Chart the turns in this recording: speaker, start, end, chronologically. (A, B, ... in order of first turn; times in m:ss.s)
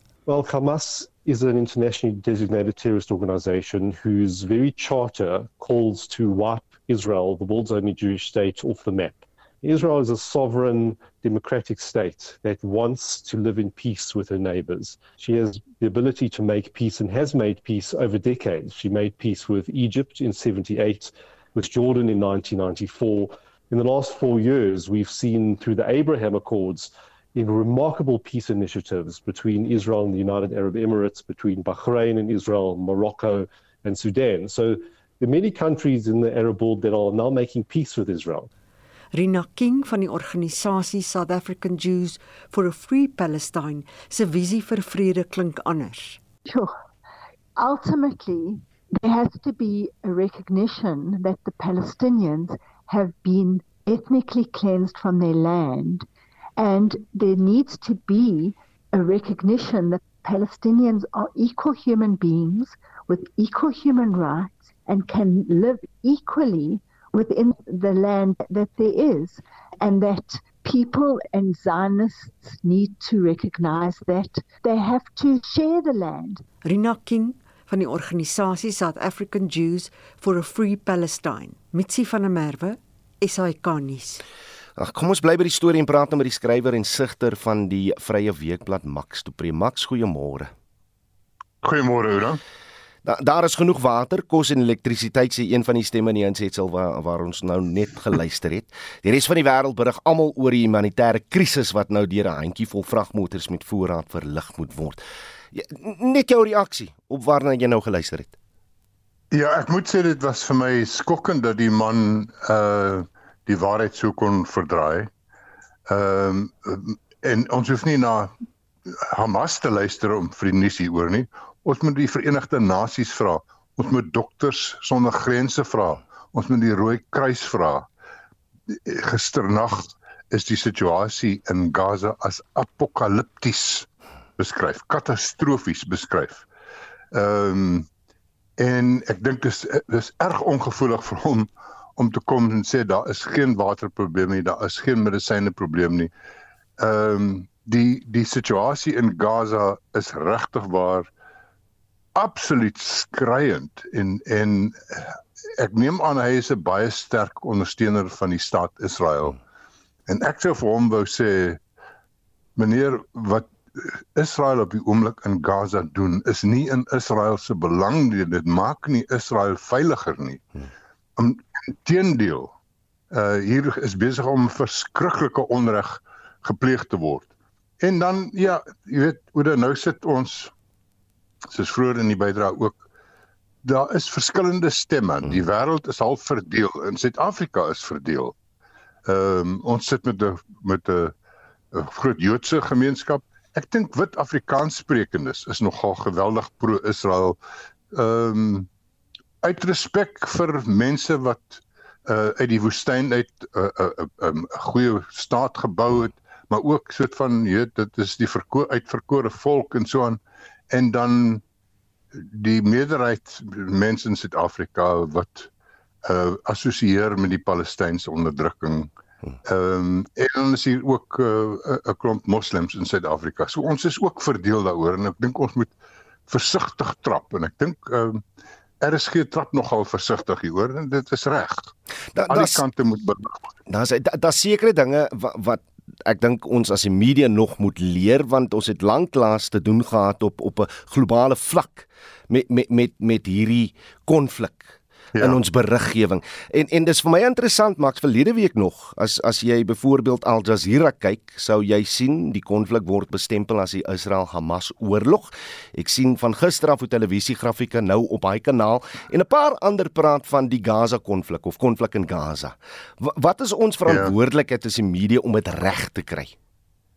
0:00.2-0:38.5 A
0:39.1-0:46.2 B
0:46.4-0:46.7 C
0:47.6-0:56.0 C
0:56.6-1:16.4 C
1:16.6-1:24.2 B
1:24.8-1:30.5 D
1:31.6-1:32.4 E
1:33.0-1:45.0 D
1:45.5-1:48.4 D
1:49.3-1:55.1 E
1:55.9-1:58.3 E
1:59.1-2:07.8 E
2:08.7-2:13.9 E
2:14.4-2:16.4 E
2:17.1-2:17.8 E
2:18.6-2:26.1 E
2:26.8-2:31.1 E
2:32.2-2:39.4 E
2:40.1-2:41.6 E
2:42.6-2:50.4 E
2:51.2-2:52.5 E
2:53.1-2:57.3 E
2:57.8-3:00.5 E
3:01.5-3:02.8 E
3:03.6-3:08.3 E
3:09.0-3:11.1 E
3:11.7-3:17.4 E
3:17.9-3:18.7 E
3:19.4-3:30.2 E
3:30.7-3:31.4 E
3:32.3-3:35.5 E
3:36.0-3:38.9 E
3:39.4-3:45.7 E
3:46.3-3:48.2 E
3:48.8-3:51.7 E
3:52.1-3:52.6 D
3:52.3-3:53.4 E
3:53.7-4:26.3 D
4:23.8-4:24.1 E